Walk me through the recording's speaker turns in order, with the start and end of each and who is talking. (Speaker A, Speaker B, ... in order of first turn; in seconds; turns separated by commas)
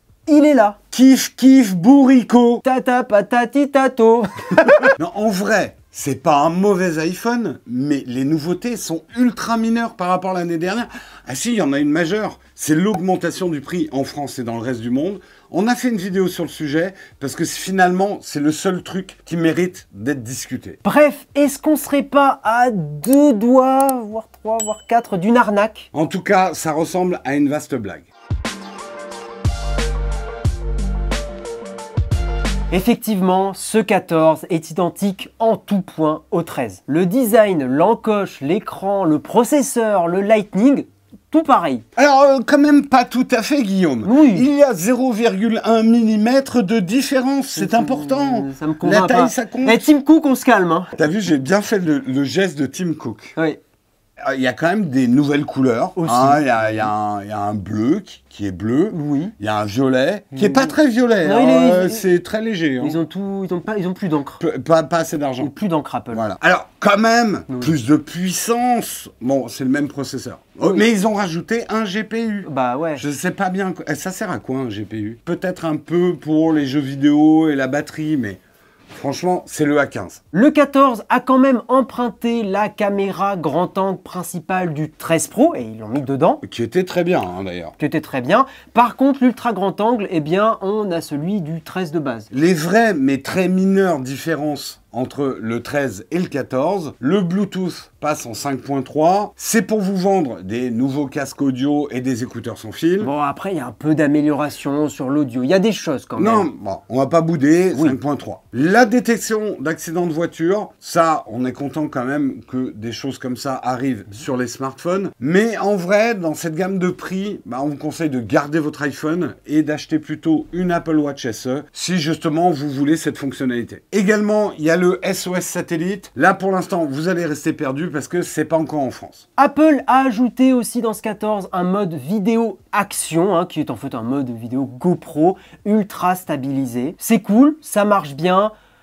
Speaker A: 0.3-0.8, Speaker B: 0.9-2.6, Speaker A: 2.6-4.9, Speaker B: 5.0-20.8, Speaker A: 20.8-25.9, Speaker B: 25.9-28.1, Speaker A: 32.7-41.8, Speaker B: 42.0-49.9, Speaker A: 44.0-44.5, Speaker A: 47.6-50.9, Speaker B: 51.0-53.3, Speaker B: 54.2-63.0, Speaker A: 56.0-56.9, Speaker A: 58.9-59.3, Speaker A: 60.3-62.0, Speaker A: 62.8-64.4, Speaker B: 64.4-65.5, Speaker A: 65.4-66.2, Speaker B: 66.1-78.4, Speaker A: 67.5-67.7, Speaker A: 72.4-73.0, Speaker B: 78.9-80.2, Speaker A: 80.3-86.4, Speaker B: 86.4-87.7, Speaker A: 87.8-92.3, Speaker B: 92.3-103.1, Speaker A: 103.0-106.5, Speaker B: 106.2-129.2, Speaker A: 129.4-138.5